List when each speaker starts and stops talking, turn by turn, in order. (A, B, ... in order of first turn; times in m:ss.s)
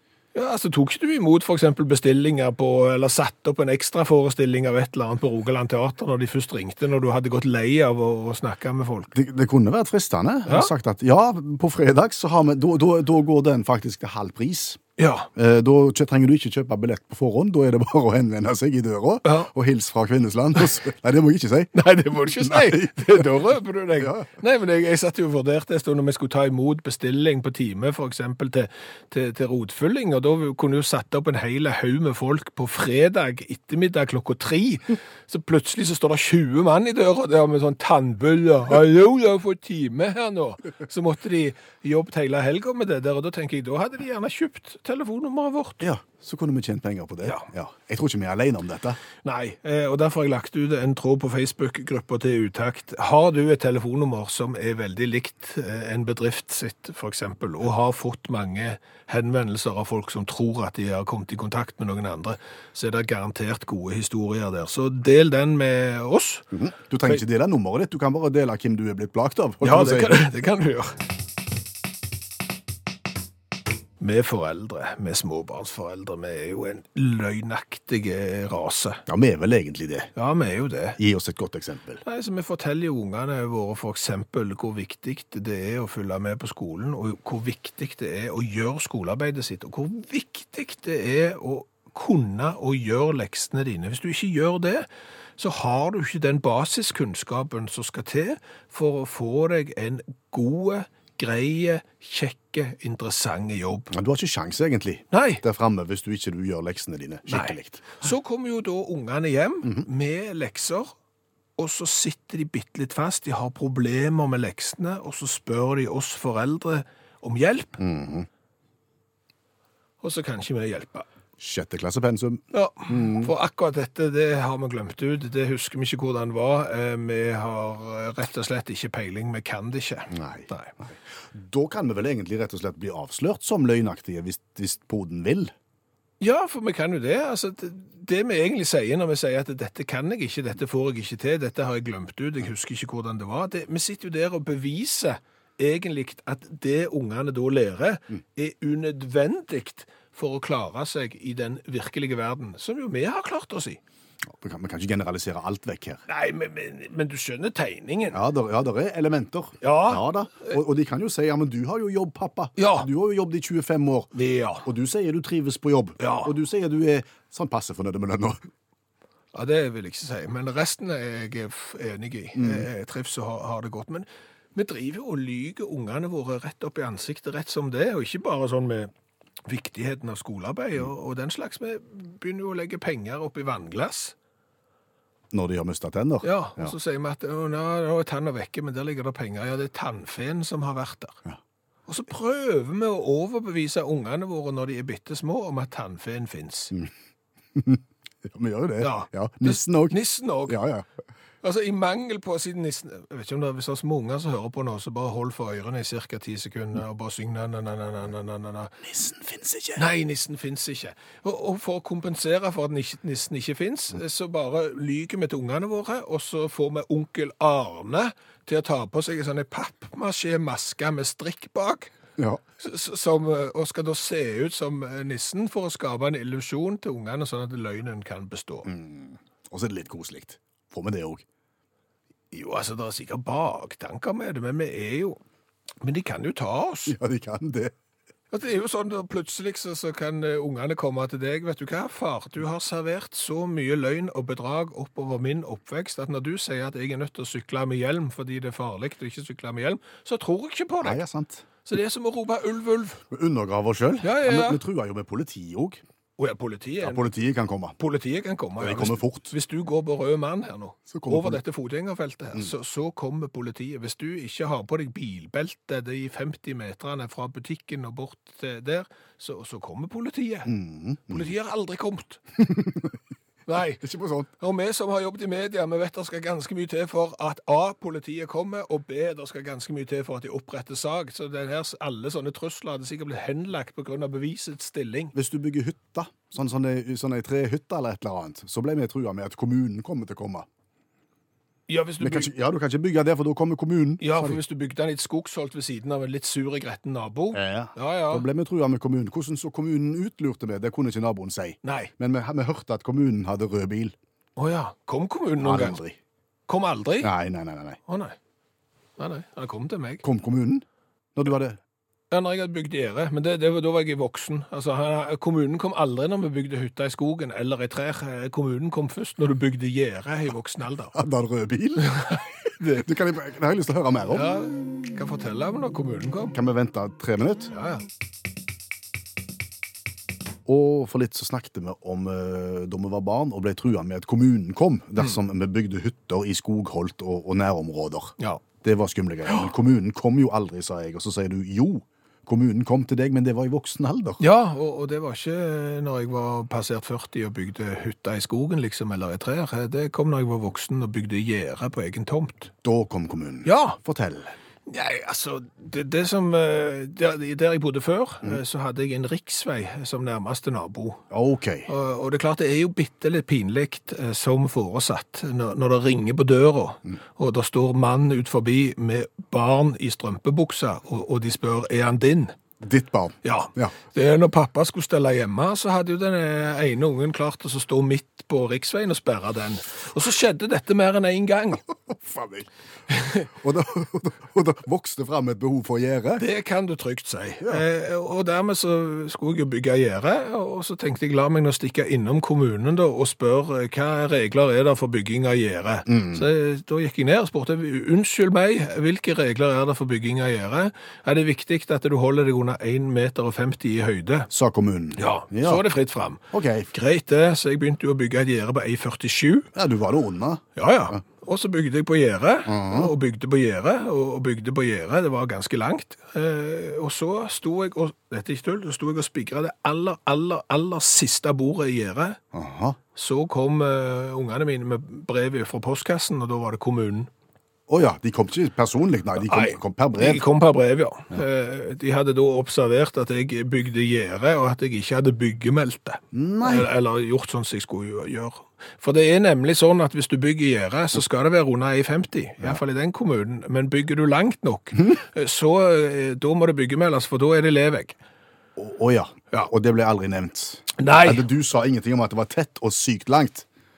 0:00.3-0:09.1 A
0:09.1-0:14.8 B
0:15.0-0:15.3 A
0:15.4-0:21.7 B
0:21.8-0:45.8 A
0:22.4-0:23.4 B
0:24.0-0:24.3 B
0:45.8-0:49.0 B
0:49.2-1:06.5 A
1:06.5-1:10.2 B
1:09.6-1:11.0 A
1:14.0-1:19.0 A
1:19.1-1:20.1 B
1:20.2-1:21.0 A
1:21.0-1:22.0 B
1:22.0-1:34.9 A
1:35.4-1:43.9 A
1:43.9-1:48.1 B
1:45.1-1:45.4 A
1:47.3-1:50.9 A
1:51.6-1:57.8 A
1:57.8-1:58.3 B
2:00.0-2:01.1 A
2:01.4-2:03.3 B
2:02.5-2:10.7 A
2:10.1-2:15.5 B
2:16.2-2:33.8 A
2:34.3-2:36.0 B
2:36.1-2:38.2 A
2:38.1-2:44.1 B
2:39.6-2:40.6 A
2:42.6-2:42.9 A
2:44.1-2:44.7 A
2:44.6-2:48.4 B
2:46.0-2:46.3 A
2:49.3-2:58.9 A
2:52.4-2:52.7 B
2:59.5-3:04.1 A
3:05.3-3:06.8 B
3:06.2-3:11.2 A
3:11.9-3:16.7 A
3:17.6-3:20.9 B
3:18.8-3:20.6 A
3:21.4-3:28.7 A
3:28.8-3:29.8 B
3:29.8-3:41.9 A
3:42.6-3:48.7 A
3:48.7-3:51.2 B
3:52.3-3:55.2 A
3:55.8-3:57.0 A
3:56.9-3:57.7 B
3:58.3-4:11.0 A
4:10.8-4:11.5 B
4:11.6-4:13.0 A
4:13.1-4:15.8 B
4:14.0-4:14.6 A
4:16.2-4:17.1 A
4:16.8-4:17.8 B
4:17.8-4:30.5 A
4:18.6-4:19.3 B
4:20.9-4:21.4 B
4:30.5-4:31.3 B
4:31.1-4:32.2 A
4:32.4-4:32.9 B
4:33.5-4:33.9 A
4:33.8-4:34.3 B
4:34.4-4:45.1 A
4:45.1-4:50.5 B
4:51.7-4:52.3 A
4:52.0-4:54.4 B
4:54.0-4:58.3 A
4:57.3-5:04.0 B
5:01.6-5:01.9 A
5:04.4-5:05.8 A
5:05.4-5:06.0 B
5:06.5-5:07.1 A
5:07.0-5:07.8 B
5:07.9-5:08.2 A
5:09.0-5:10.0 A
5:10.0-5:11.6 B
5:12.1-5:21.0 A
5:20.9-5:22.0 B
5:21.8-5:22.9 A
5:22.7-5:24.4 B
5:24.1-5:26.3 A
5:26.3-5:27.5 B
5:27.5-5:27.8 A
5:30.5-5:44.2 B
5:44.2-5:52.5 A
5:52.6-5:54.3 B
5:53.4-5:53.8 A
5:54.7-6:01.0 A
6:01.1-6:01.7 B
6:01.7-6:12.4 A
6:12.6-6:13.7 B
6:13.2-6:21.6 A
6:21.9-6:22.5 B
6:22.9-6:23.3 A
6:23.4-6:26.2 B
6:26.2-6:44.3 A
6:35.9-6:36.3 B
6:44.3-6:45.6 B
6:45.0-6:49.5 A
6:46.3-6:46.7 B
6:49.6-6:51.0 B
6:50.6-7:02.2 A
6:52.5-6:52.9 B
7:02.3-7:02.8 B
7:03.0-7:07.1 A
7:07.7-7:10.2 B
7:09.2-7:28.0 A
7:16.1-7:16.7 B
7:28.6-7:33.5 B
7:30.8-7:31.2 A